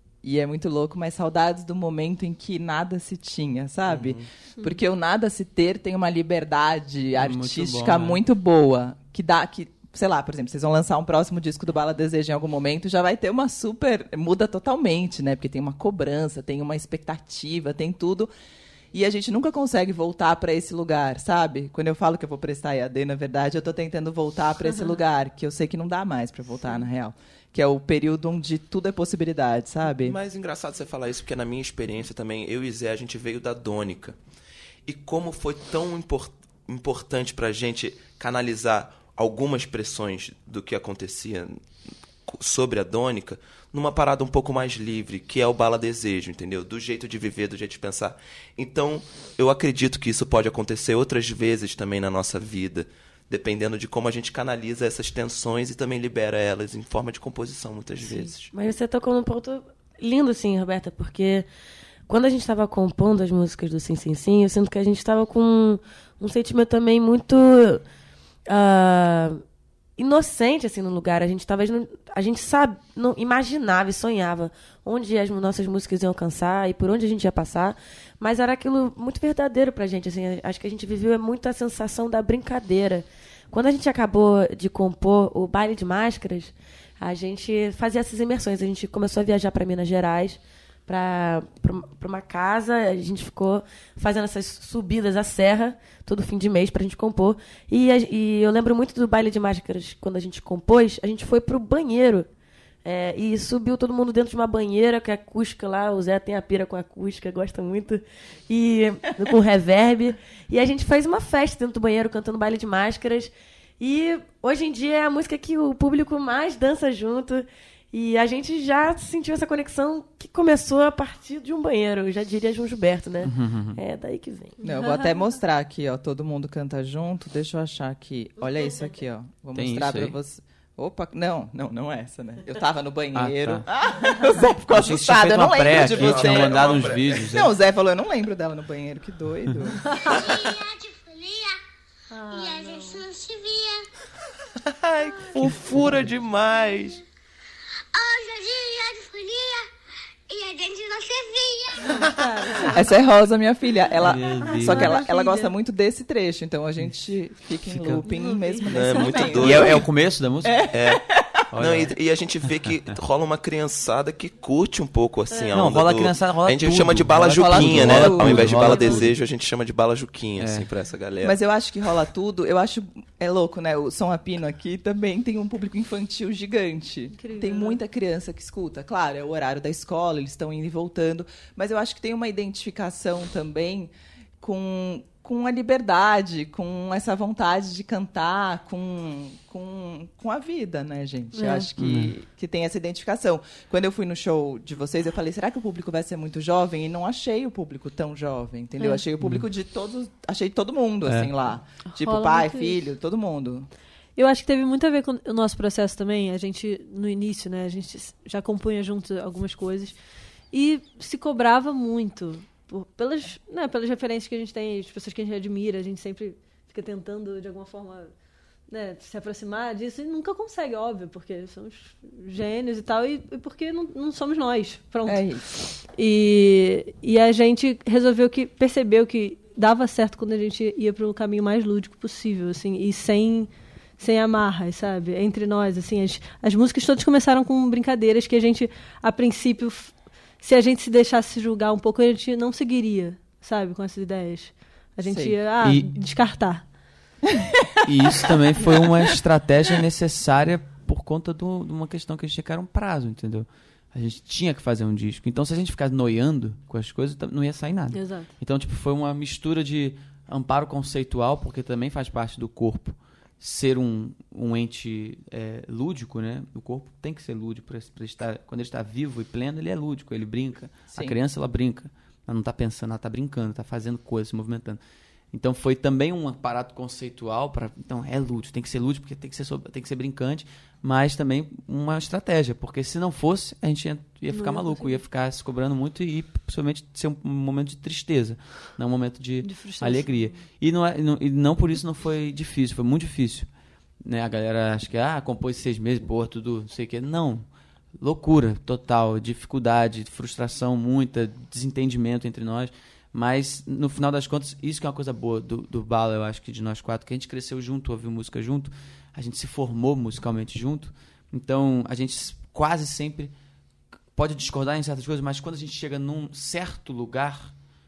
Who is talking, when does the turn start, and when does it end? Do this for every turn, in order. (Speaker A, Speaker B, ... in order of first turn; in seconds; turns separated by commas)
Speaker A: 0.2-18.3, Speaker B: 3.9-4.2, Speaker C: 7.2-8.2, Speaker A: 18.9-30.2, Speaker B: 29.9-34.2, Speaker B: 34.9-41.6, Speaker B: 42.3-58.5, Speaker D: 58.0-61.5, Speaker D: 62.1-67.8, Speaker D: 68.5-69.4, Speaker D: 70.0-102.3, Speaker D: 102.8-124.6, Speaker C: 123.2-123.8, Speaker E: 124.6-125.1, Speaker A: 124.6-139.9, Speaker D: 128.5-128.9, Speaker C: 129.5-130.2, Speaker C: 133.1-133.7, Speaker C: 134.6-137.5, Speaker B: 135.7-137.1, Speaker E: 139.9-140.4, Speaker F: 139.9-141.6, Speaker E: 142.1-143.0, Speaker F: 142.3-143.9, Speaker B: 144.9-147.0, Speaker F: 147.9-149.7, Speaker F: 150.3-152.0, Speaker E: 151.9-152.8, Speaker A: 152.7-159.8, Speaker C: 154.0-154.7, Speaker E: 154.5-155.5, Speaker C: 157.6-158.0, Speaker E: 158.0-159.4, Speaker B: 158.7-159.9, Speaker C: 159.4-160.6, Speaker A: 160.4-161.3, Speaker B: 160.7-171.4, Speaker C: 161.5-161.9, Speaker E: 165.3-165.6, Speaker C: 165.5-169.1, Speaker A: 167.3-168.9, Speaker C: 170.4-170.7, Speaker A: 171.2-203.7, Speaker E: 177.2-177.8, Speaker E: 191.3-191.7, Speaker C: 191.8-192.1, Speaker C: 201.0-201.3, Speaker E: 201.9-202.8, Speaker E: 204.2-210.0, Speaker E: 210.5-218.1, Speaker E: 218.7-246.7, Speaker A: 225.0-225.4, Speaker A: 245.0-245.4, Speaker C: 245.6-245.9, Speaker C: 247.8-274.8, Speaker E: 257.9-258.3, Speaker A: 270.9-271.2, Speaker C: 275.3-293.5, Speaker E: 284.3-285.0, Speaker E: 289.4-290.3, Speaker C: 294.0-297.4, Speaker C: 298.0-313.3, Speaker C: 314.1-317.5